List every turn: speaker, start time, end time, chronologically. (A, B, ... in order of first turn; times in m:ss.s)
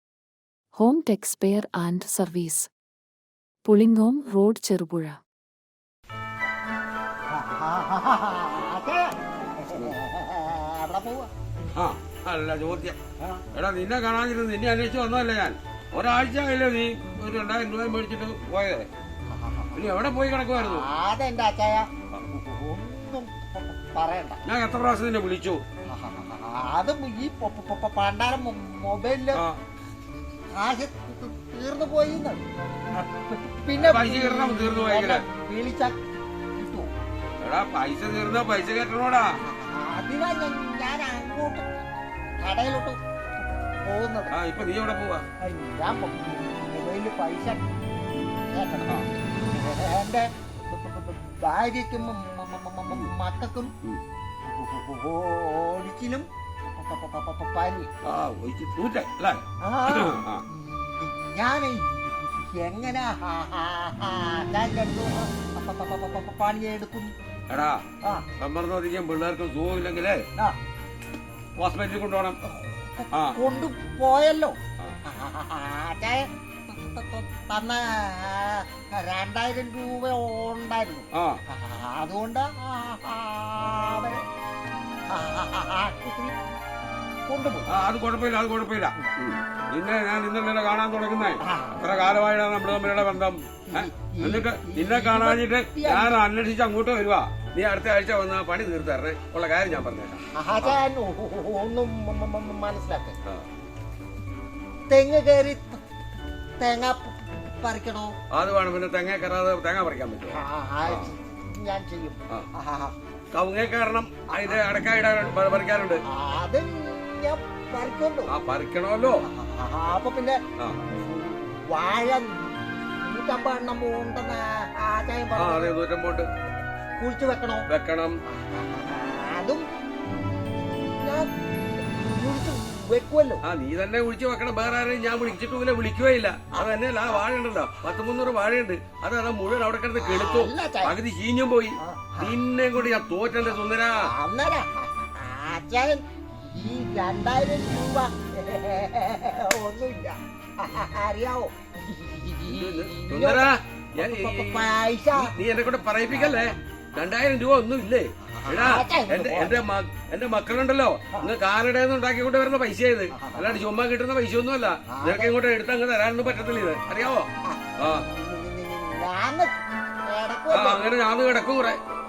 0:00.8-0:02.7 A
0:03.6-0:05.2 A
0:07.3-0:11.3 B
0:11.7-0:13.0 C
0:13.5-0:18.9 C
0:19.3-0:19.8 B
0:19.7-0:20.9 C
0:20.6-0:24.4 B
0:24.4-0:25.6 C
0:25.9-0:29.4 B
0:30.5-0:32.4 B
0:33.3-0:36.0 B
0:33.8-0:35.2 C
0:36.6-0:36.9 B
0:37.4-0:39.3 C
0:39.4-0:41.6 B
0:42.4-0:44.3 B
0:44.3-0:45.2 C
0:45.4-0:47.6 B
0:48.5-0:53.7 B
0:54.5-0:57.9 B
0:58.0-1:00.4 C
0:59.6-1:07.1 B
1:07.5-1:07.8 C
1:08.4-1:10.2 C
1:11.6-1:12.4 C
1:12.5-1:24.2 B
1:13.1-1:13.4 C
1:21.1-1:21.4 C
1:25.1-1:26.3 B
1:27.3-1:27.7 B
1:27.6-1:40.8 C
1:31.4-1:31.8 B
1:33.7-1:36.1 B
1:40.4-1:43.2 B
1:44.9-1:45.8 B
1:46.6-1:48.1 B
1:48.3-1:51.1 C
1:50.3-1:52.9 B
1:53.3-1:56.0 C
1:56.1-1:58.3 B
1:58.3-1:59.2 C
1:59.2-2:05.7 B
2:05.4-2:06.3 C
2:07.0-2:07.6 B
2:07.7-2:08.2 C
2:08.3-2:09.6 B
2:10.1-2:11.3 B
2:12.0-2:13.4 B
2:13.4-2:24.0 C
2:20.0-2:20.9 B
2:21.8-2:22.4 B
2:24.0-2:33.5 B
2:32.5-2:47.3 C
2:34.0-2:35.3 B
2:36.1-2:36.5 B
2:38.3-2:39.6 B
2:43.2-2:43.6 B
2:45.0-2:45.3 B
2:47.5-2:50.8 B
2:47.8-2:48.0 C
2:50.5-2:51.8 C